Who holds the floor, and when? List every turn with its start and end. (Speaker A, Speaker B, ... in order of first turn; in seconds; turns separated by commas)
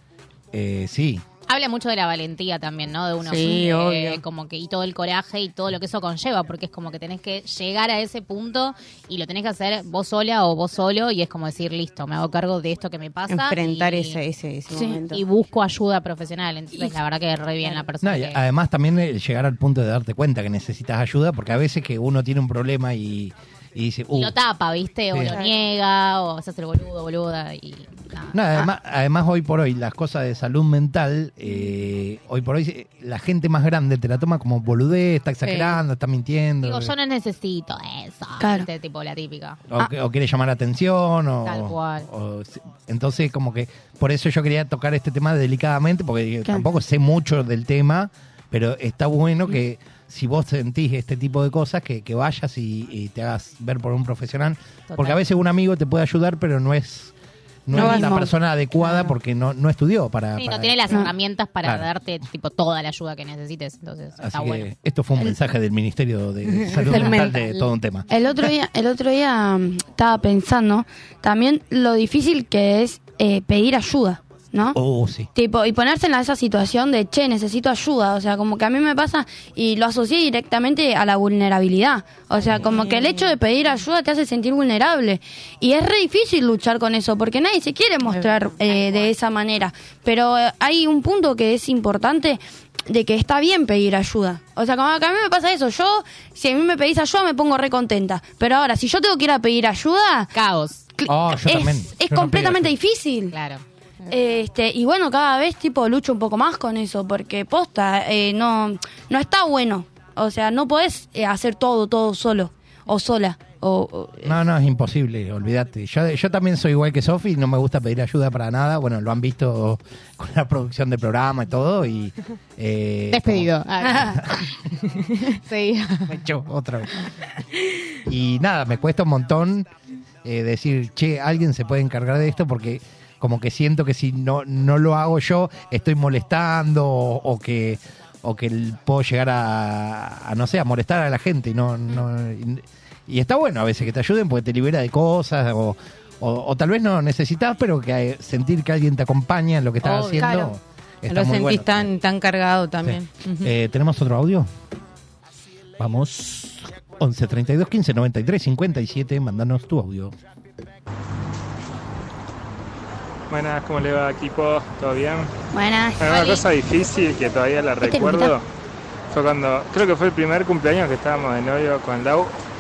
Speaker A: 0.5-1.2, Speaker B: 1.5-14.2, Speaker C: 3.2-4.2, Speaker C: 13.3-15.2, Speaker D: 14.7-15.0, Speaker B: 15.1-18.4, Speaker A: 18.0-24.3, Speaker B: 24.1-28.6, Speaker A: 25.1-25.4, Speaker A: 28.3-36.9, Speaker C: 35.4-35.8, Speaker B: 36.6-39.6, Speaker D: 38.4-38.7, Speaker A: 39.7-57.1, Speaker B: 41.4-42.1, Speaker B: 54.9-55.2, Speaker A: 57.7-61.0, Speaker D: 57.7-58.3, Speaker C: 57.8-58.3, Speaker C: 58.8-59.1, Speaker B: 60.4-64.7, Speaker A: 64.2-68.1, Speaker C: 66.5-67.6, Speaker D: 68.1-74.8, Speaker A: 74.7-75.3, Speaker D: 75.3-100.3, Speaker C: 82.4-83.4, Speaker C: 88.1-88.5, Speaker B: 88.7-89.1, Speaker B: 100.3-100.8, Speaker D: 101.0-103.3, Speaker A: 101.1-102.8, Speaker B: 103.3-103.6, Speaker D: 104.1-114.4, Speaker A: 114.2-124.5, Speaker B: 123.1-124.2, Speaker D: 123.8-124.1, Speaker B: 125.3-126.1, Speaker A: 126.1-126.9, Speaker A: 128.1-129.7, Speaker A: 130.2-151.9, Speaker B: 149.8-150.5, Speaker C: 150.0-150.5, Speaker C: 151.1-153.5, Speaker A: 152.8-154.5, Speaker A: 155.8-160.1, Speaker E: 163.3-165.3, Speaker D: 165.5-166.4, Speaker E: 166.0-168.4, Speaker D: 167.8-168.3, Speaker E: 169.1-172.3